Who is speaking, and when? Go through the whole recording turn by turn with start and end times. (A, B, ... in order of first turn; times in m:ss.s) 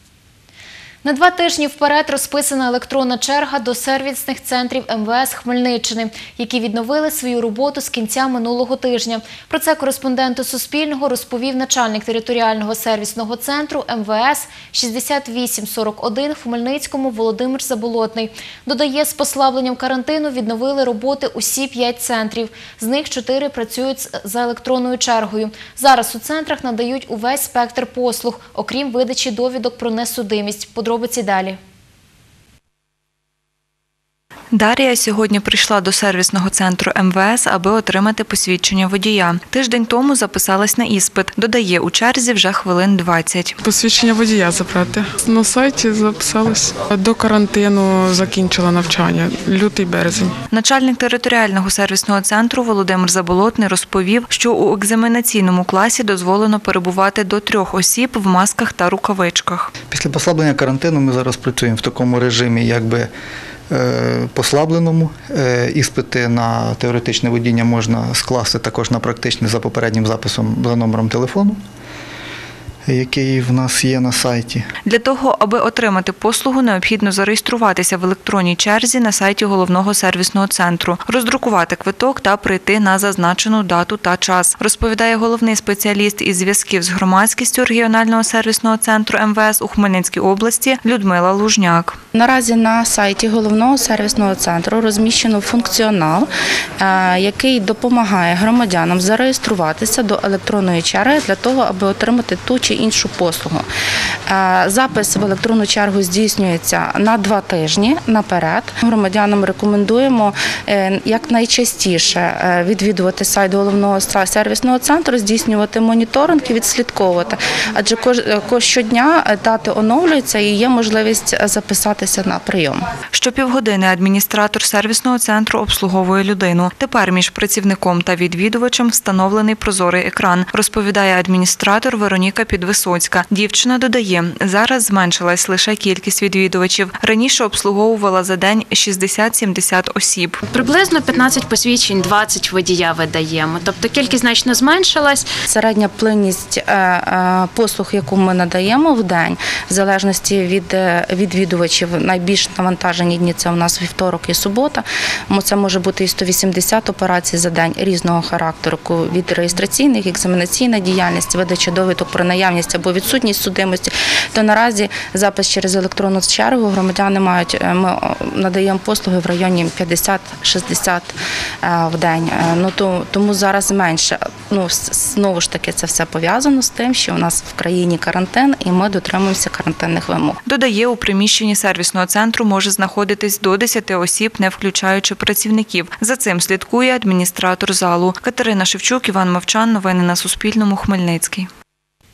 0:01.0-0:31.6 A
0:34.5-0:43.6 B
0:43.6-0:50.4 C
0:50.5-0:59.8 B
0:59.8-1:03.1 D
1:03.7-1:11.6 D
1:12.8-1:14.6 D
1:14.8-1:32.0 B
1:32.1-1:43.6 E
1:44.3-2:02.8 E
2:03.1-2:20.4 B
2:20.4-2:25.3 F
2:25.4-3:00.4 E
3:00.4-3:11.5 B